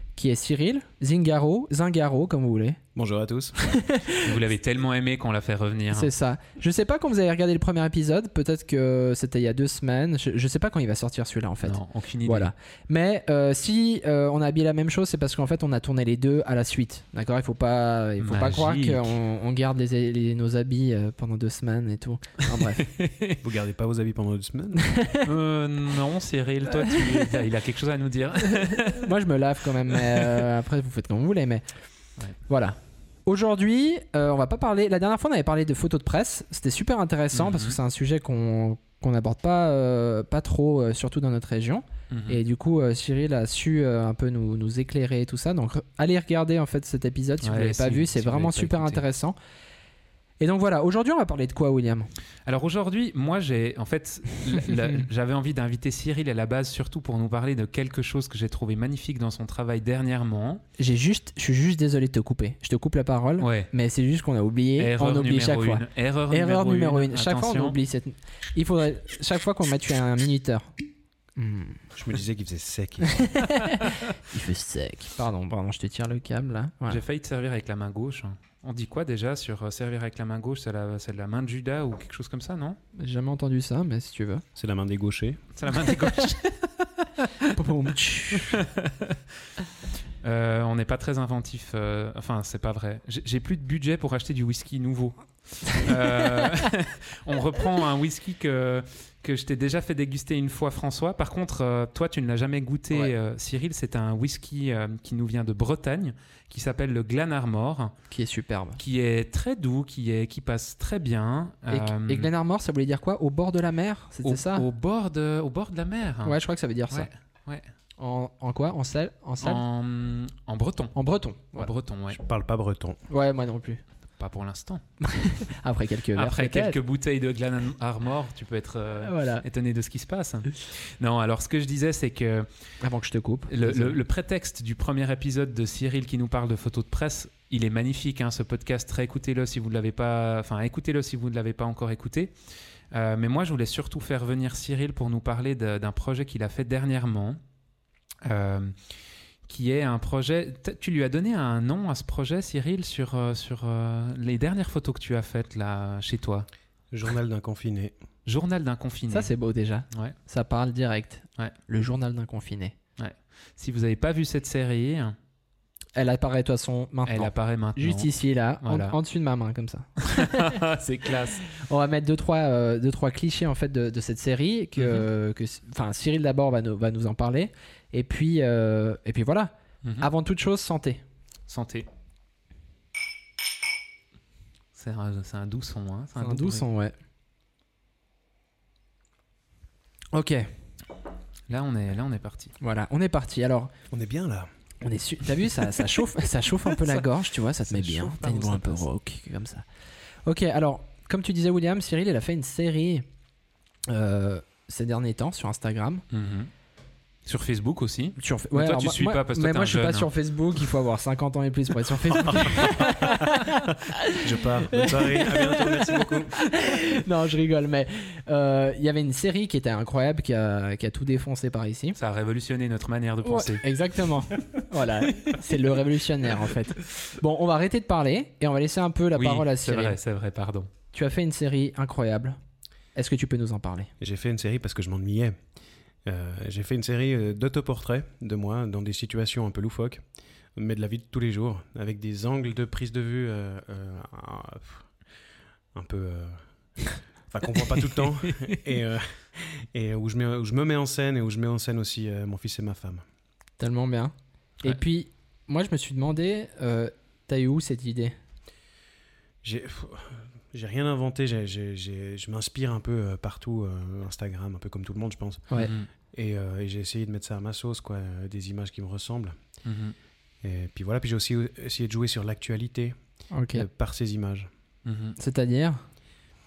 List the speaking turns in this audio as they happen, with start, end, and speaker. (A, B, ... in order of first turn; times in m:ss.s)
0:00.2-0:02.8 A
0:03.0-0:03.6 B
0:03.6-0:04.4 A
0:04.2-0:06.1 C
0:05.9-0:22.9 A
0:11.6-0:12.5 C
0:18.2-0:19.1 C
0:22.8-0:23.4 C
0:23.4-0:24.9 B
0:24.8-0:25.3 A
0:25.2-0:29.1 C
0:26.8-0:27.3 A
0:28.5-0:31.6 A
0:30.0-0:30.4 C
0:32.5-0:49.4 A
0:37.3-0:37.8 C
0:42.1-0:42.4 C
0:47.4-0:49.0 C
0:50.4-0:52.1 A
0:52.5-1:00.6 C
1:00.8-1:10.7 A
1:03.4-1:03.7 C
1:04.8-1:07.8 C
1:11.4-1:11.8 A
1:11.9-1:13.3 B
1:13.0-1:17.0 A
1:16.9-1:22.8 C
1:23.0-1:24.4 A
1:24.6-1:25.4 B
1:25.6-1:27.5 C
1:27.5-1:28.6 A
1:28.4-1:29.2 C
1:30.2-1:47.9 C
1:48.1-1:48.8 A
1:48.8-1:52.3 C
1:51.7-1:54.7 A
1:54.2-1:56.4 C
1:56.2-1:57.1 A
1:56.9-1:57.7 C
1:58.0-1:59.6 A
1:59.4-2:01.0 C
2:01.0-2:01.7 A
2:01.6-2:02.2 C
2:02.1-2:03.0 B
2:03.1-2:03.8 A
2:04.2-2:04.8 C
2:05.0-2:06.8 A
2:06.2-2:12.5 C
2:09.0-2:09.4 A
2:12.8-2:14.0 A
2:13.5-2:22.3 C
2:22.9-2:27.4 C
2:28.2-2:28.8 C
2:29.5-2:36.5 C
2:36.9-2:37.9 B
2:38.3-2:39.3 C
2:39.1-2:42.8 A
2:43.0-2:45.2 C
2:46.0-2:50.6 A
2:47.1-2:48.1 C
2:48.6-2:49.0 C
2:50.1-2:51.5 C
2:51.6-3:01.0 A
2:54.8-2:55.1 C
2:59.8-3:00.1 C
3:01.5-3:01.9 C
3:04.8-3:06.7 C
3:06.2-3:06.9 A
3:10.1-3:10.5 A
3:11.5-3:12.5 C
3:12.6-3:13.7 A
3:13.9-3:14.5 B
3:14.8-3:19.6 A
3:16.7-3:17.0 C
3:17.7-3:18.9 C
3:20.3-3:23.0 A
3:23.9-3:26.0 A
3:26.1-3:26.5 C
3:27.2-3:30.1 C
3:28.2-3:42.0 A
3:32.1-3:33.3 B
3:34.1-3:36.4 B
3:42.0-3:43.7 C
3:43.2-3:50.0 A
3:49.2-3:50.7 C
3:50.9-3:52.4 A
3:53.0-3:53.9 A
3:54.0-3:55.4 B
3:56.0-4:00.0 B
4:00.6-4:04.9 B
4:05.7-4:06.4 B
4:07.3-4:13.0 B
4:08.0-4:08.6 C
4:13.6-4:18.2 A
4:19.4-4:25.5 B
4:25.6-4:25.9 C
4:26.1-4:29.4 B
4:29.6-4:30.0 C
4:30.4-4:33.0 B
4:33.3-4:33.7 A
4:33.5-4:34.5 B
4:34.8-4:35.2 C
4:35.2-4:35.8 A